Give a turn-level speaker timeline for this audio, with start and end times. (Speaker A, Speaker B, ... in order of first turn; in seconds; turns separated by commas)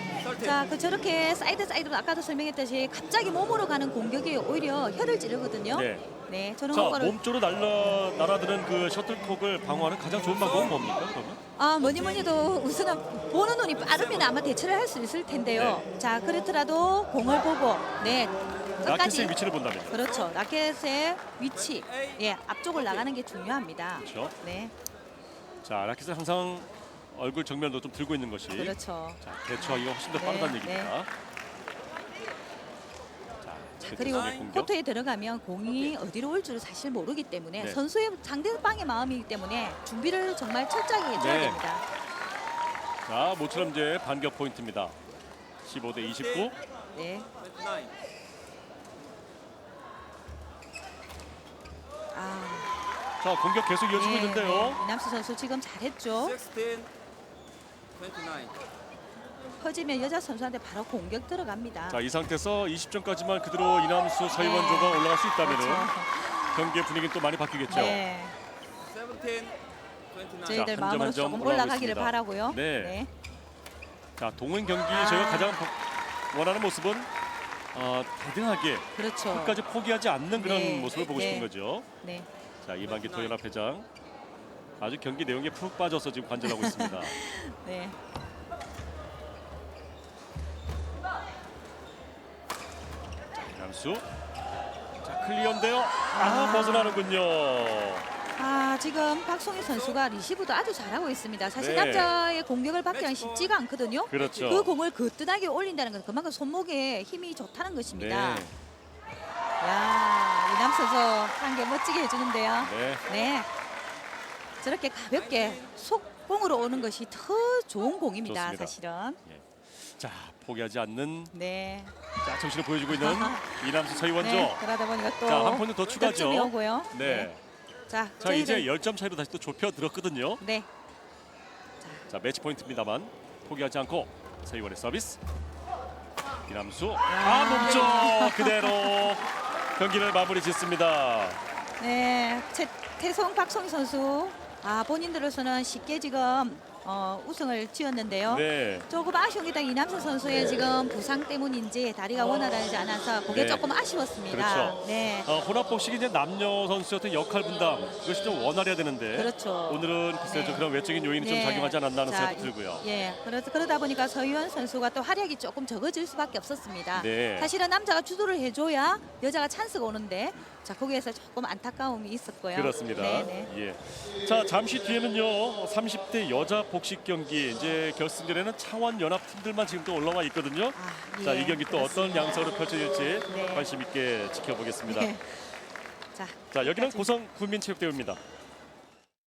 Speaker A: 0.2-7.2, Speaker B: 5.7-6.1, Speaker B: 6.7-11.4, Speaker A: 11.6-19.3, Speaker B: 15.5-15.8, Speaker B: 18.8-20.0, Speaker A: 19.9-24.7, Speaker B: 24.0-24.3, Speaker B: 25.6-31.1, Speaker A: 28.5-30.9, Speaker B: 33.4-34.7, Speaker A: 33.8-41.9, Speaker B: 41.1-41.6, Speaker B: 43.0-45.0, Speaker B: 45.6-46.5, Speaker A: 46.9-47.3, Speaker A: 52.1-52.8, Speaker B: 53.2-54.8, Speaker A: 53.9-56.4, Speaker C: 56.4-56.9, Speaker A: 59.6-62.0, Speaker B: 61.9-68.0, Speaker A: 64.3-66.8, Speaker A: 67.7-68.4, Speaker C: 68.9-69.5, Speaker C: 70.2-70.5, Speaker A: 70.4-73.1, Speaker B: 70.5-73.0, Speaker B: 74.2-75.8, Speaker A: 74.9-75.7, Speaker B: 76.3-77.1, Speaker B: 77.7-81.9, Speaker A: 79.0-79.6, Speaker A: 80.4-81.5, Speaker A: 82.0-82.3, Speaker B: 82.6-83.9, Speaker B: 84.8-87.2, Speaker A: 86.4-88.0, Speaker B: 93.4-94.0, Speaker B: 95.0-98.1, Speaker A: 96.1-97.1, Speaker A: 98.4-108.5, Speaker B: 101.6-102.2, Speaker B: 104.1-104.7, Speaker B: 107.9-108.5, Speaker A: 109.6-113.5, Speaker B: 112.6-113.0, Speaker A: 114.6-119.2, Speaker C: 115.3-115.7, Speaker B: 118.2-121.3, Speaker A: 121.3-121.9, Speaker B: 122.2-124.6, Speaker A: 122.9-127.3, Speaker B: 125.3-127.4, Speaker A: 127.9-128.7, Speaker B: 128.2-130.4, Speaker A: 130.4-130.7, Speaker A: 131.8-132.1, Speaker B: 132.1-135.2, Speaker B: 136.5-141.4, Speaker A: 137.1-139.1, Speaker A: 141.8-155.3, Speaker B: 148.3-148.9, Speaker B: 153.3-153.7, Speaker B: 154.3-162.8, Speaker A: 159.1-160.6, Speaker A: 161.2-173.5, Speaker B: 166.9-167.5, Speaker B: 172.5-185.1, Speaker A: 180.7-182.6, Speaker A: 183.3-183.7, Speaker A: 184.9-185.4, Speaker A: 186.1-187.1, Speaker B: 186.5-188.2